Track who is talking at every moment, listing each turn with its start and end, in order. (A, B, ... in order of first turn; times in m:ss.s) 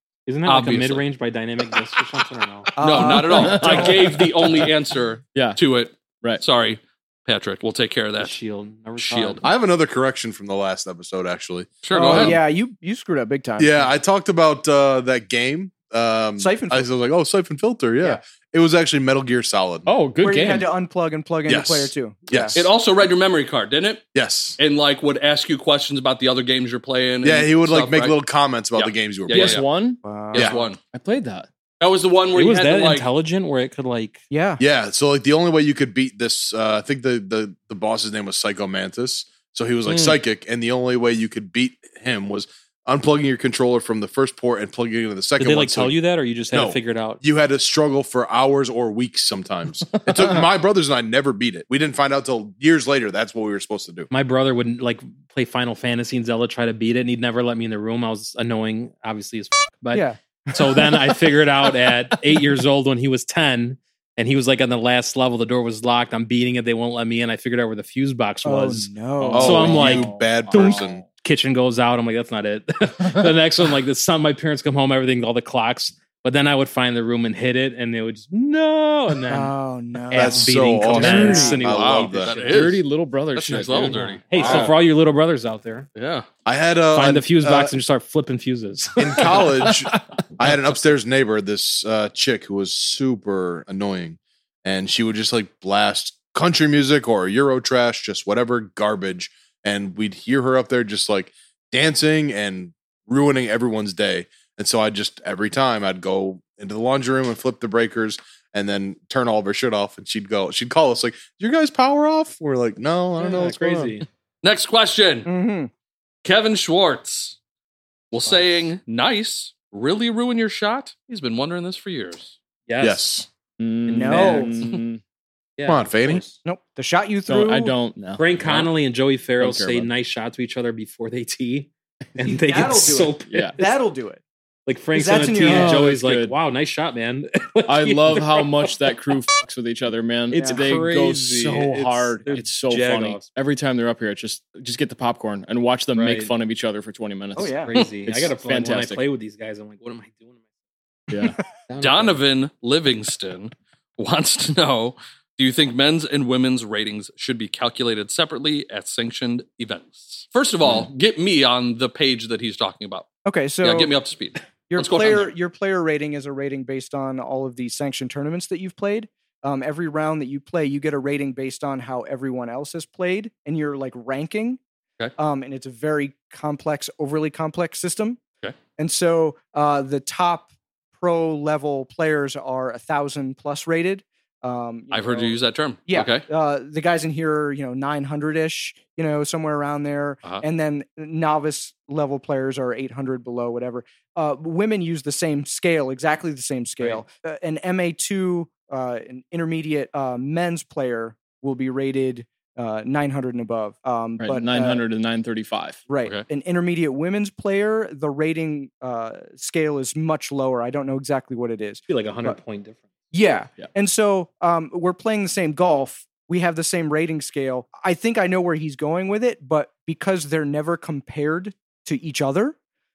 0:00.3-0:03.2 A
0:00.4-0:01.0 B
0:02.7-0:04.2 C
0:02.8-0:08.4 B
0:03.3-0:04.3 D
0:05.3-0:05.6 D
0:08.2-0:09.4 A
0:09.0-0:09.4 B
0:09.4-0:12.4 E
0:11.8-0:12.4 B
0:11.9-0:13.9 C
0:13.6-0:19.9 E
0:16.4-0:16.8 C
0:19.9-0:20.7 D
0:20.2-0:22.6 C
0:21.5-0:22.7 E
0:22.6-0:28.2 B
0:24.1-0:24.6 E
0:27.2-0:29.6 E
0:28.7-0:29.6 B
0:29.3-0:30.0 D
0:30.0-0:30.5 C
0:30.3-0:30.8 B
0:30.8-0:31.5 D
0:31.8-0:33.1 B
0:32.3-0:34.2 A
0:34.3-0:34.6 C
0:34.6-0:46.0 E
0:39.9-0:40.1 D
0:45.4-0:47.2 A
0:46.5-0:54.1 E
0:54.1-1:10.1 A
0:59.9-1:01.0 C
1:08.4-1:09.9 C
1:09.2-1:11.0 D
1:09.4-1:11.0 E
1:10.6-1:19.5 A
1:19.3-1:21.6 C
1:20.1-1:22.7 A
1:20.1-1:22.3 E
1:21.0-1:21.6 D
1:21.7-1:22.8 B
1:22.4-1:24.7 D
1:23.4-1:24.7 B
1:24.0-1:25.9 A
1:26.0-1:26.3 B
1:26.4-1:27.7 E
1:26.9-1:29.7 A
1:29.0-1:54.0 E
1:53.2-1:54.0 A
1:54.4-1:55.3 B
1:55.3-1:55.7 C
1:56.2-1:57.4 B
1:58.1-2:02.4 B
2:02.7-2:03.1 A
2:02.8-2:03.3 E
2:03.6-2:05.0 D
2:03.9-2:04.8 A
2:03.9-2:04.5 C
2:05.6-2:06.4 A
2:05.6-2:06.2 E
2:06.4-2:07.7 C
2:07.2-2:08.7 D
2:08.2-2:13.8 A
2:09.4-2:09.9 D
2:12.2-2:14.2 C
2:13.3-2:13.6 D
2:14.6-2:18.7 A
2:14.9-2:15.9 C
2:15.4-2:16.4 D
2:17.7-2:29.0 D
2:20.3-2:23.3 A
2:20.3-2:20.6 C
2:25.9-2:26.3 A
2:27.4-2:27.8 C
2:27.4-2:30.3 A
2:31.1-2:31.4 D
2:31.7-2:32.2 A
2:31.8-2:43.1 B
2:43.2-2:43.9 C
2:43.6-2:45.3 B
2:44.7-2:54.6 C
2:55.2-2:58.2 C
2:58.8-3:05.4 C
3:04.9-3:06.3 B
3:05.9-3:24.8 C
3:24.2-3:25.8 D
3:25.9-3:32.4 C
3:31.9-3:32.8 A
3:33.1-3:42.6 C